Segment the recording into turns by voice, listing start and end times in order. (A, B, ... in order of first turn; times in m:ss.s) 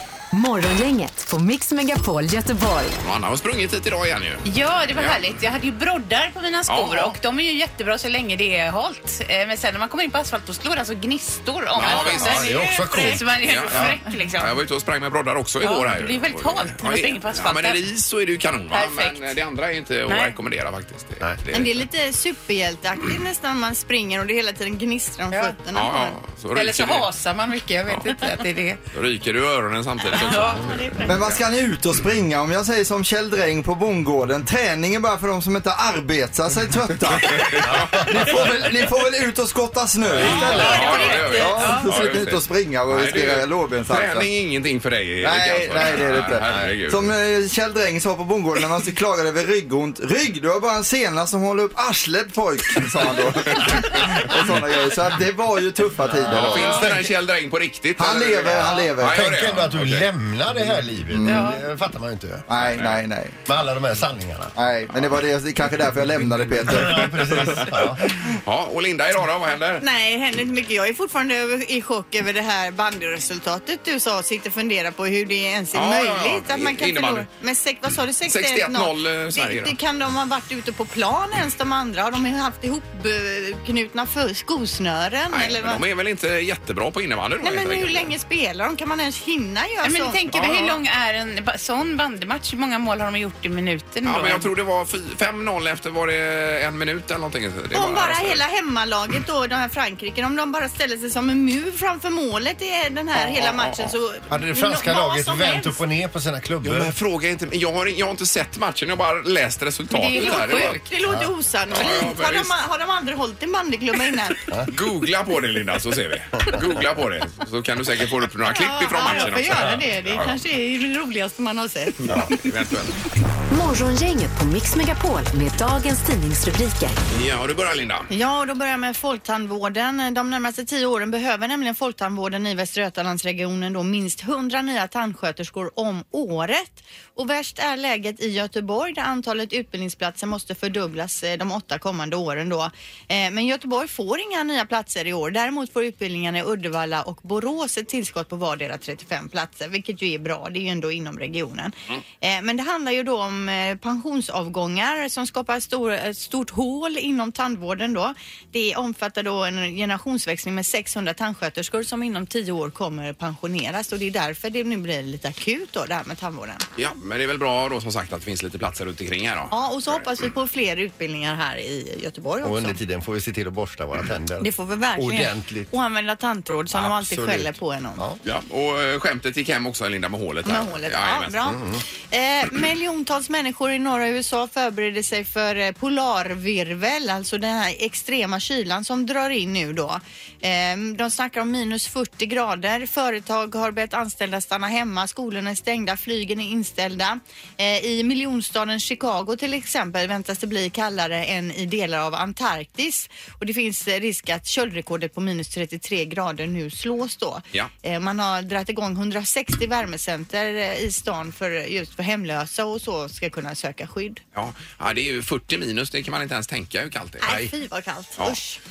0:00.3-0:02.9 A
0:03.0-0:05.2 B
0:04.4-0:14.5 C
0:06.7-0:07.1 B
0:11.8-0:12.6 B
0:11.8-0:14.0 D
0:13.4-0:21.8 B
0:15.6-0:17.8 C
0:18.7-0:19.3 C
0:20.1-0:20.4 C
0:21.5-0:26.2 E
0:25.3-0:25.6 C
0:25.7-0:27.1 B
0:26.5-0:28.8 C
0:28.9-0:31.4 B
0:30.1-0:31.1 E
0:30.2-0:30.7 C
0:31.0-0:44.3 F
0:37.2-0:38.3 B
0:37.6-0:38.6 D
0:40.1-0:40.7 D
0:40.1-0:47.1 B
0:40.2-0:41.8 E
0:40.2-0:41.8 C
0:45.2-0:56.9 F
0:46.4-0:46.7 D
0:56.1-0:57.1 D
0:56.2-1:00.1 B
0:58.0-0:59.2 F
0:58.5-1:02.5 D
1:01.1-1:01.5 F
1:02.5-1:03.3 F
1:02.6-1:03.0 B
1:03.4-1:04.5 D
1:04.6-1:07.7 F
1:06.6-1:08.1 D
1:07.5-1:09.8 B
1:09.8-1:25.8 E
1:15.7-1:17.3 B
1:18.2-1:19.8 B
1:25.3-1:28.1 B
1:27.4-1:30.8 E
1:29.8-1:34.5 C
1:34.0-1:38.4 B
1:37.7-1:45.8 E
1:43.2-1:43.9 B
1:44.3-1:46.9 D
1:46.6-1:50.8 B
1:49.9-1:54.4 E
1:50.0-1:50.6 C
1:51.0-1:51.3 D
1:51.7-1:52.5 B
1:54.7-2:00.3 B
1:58.5-2:02.3 E
1:59.1-1:59.8 D
2:02.0-2:02.9 B
2:03.5-2:07.0 A
2:07.1-2:08.1 B
2:08.1-2:46.6 E
2:46.8-2:49.5 B
2:49.5-2:52.8 E
2:52.4-2:55.7 D
2:54.4-2:58.0 E
2:56.7-2:58.2 D
2:58.2-3:01.5 B
3:00.4-3:34.2 E
3:01.4-3:01.8 D
3:34.3-3:37.4 B
3:37.2-3:38.6 E
3:37.2-3:37.5 D